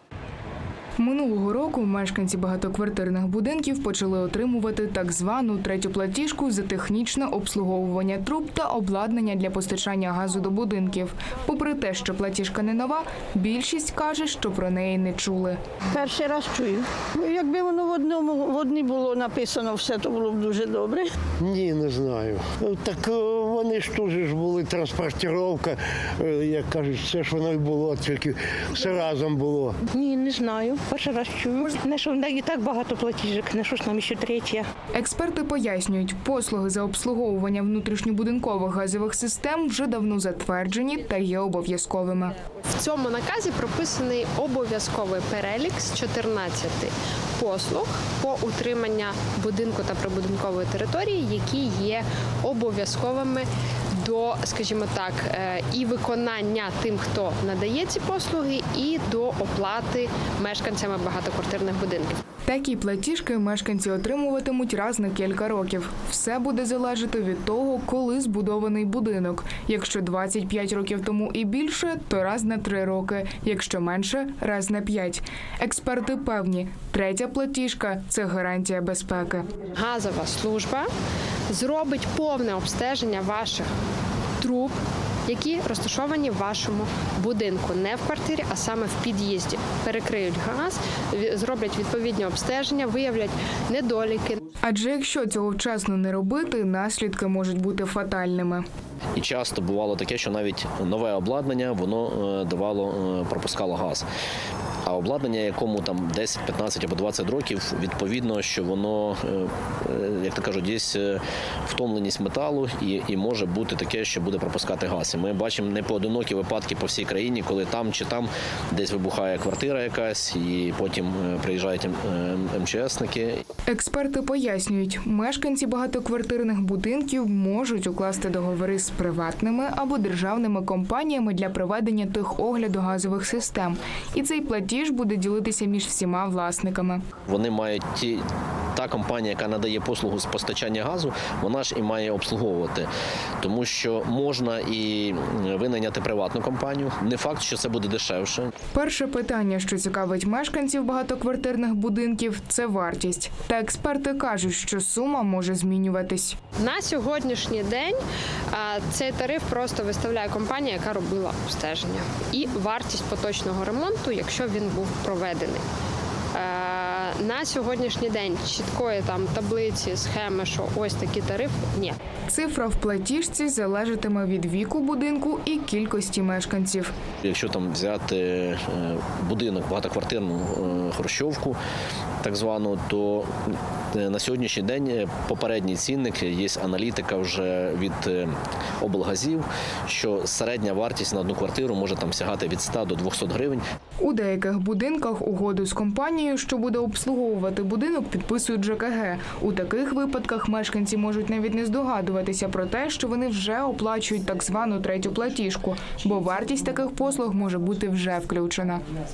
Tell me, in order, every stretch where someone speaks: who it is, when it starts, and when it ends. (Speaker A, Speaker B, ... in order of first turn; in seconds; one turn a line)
Speaker A: 1.0-15.6
Speaker B: 15.9-21.1
Speaker C: 21.4-29.8
Speaker D: 29.9-34.7
Speaker A: 34.9-42.4
Speaker E: 42.8-53.5
Speaker E: 54.0-62.2
Speaker A: 62.5-79.5
Speaker E: 79.8-80.9
Speaker E: 81.5-83.7
Speaker E: 84.4-94.4
Speaker A: 94.6-98.6
Speaker F: 99.2-104.0
Speaker F: 104.9-123.3
Speaker A: 123.7-137.0
Speaker F: 137.3-138.2
Speaker F: 138.7-148.5
Speaker A: 148.8-156.4
Speaker E: 156.6-158.0
Speaker E: 158.5-165.6
Speaker E: 166.3-172.0
Speaker A: 172.3-176.9
Speaker F: 177.2-181.6
Speaker F: 182.2-183.3
Speaker F: 183.9-193.6
Speaker A: 194.0-208.8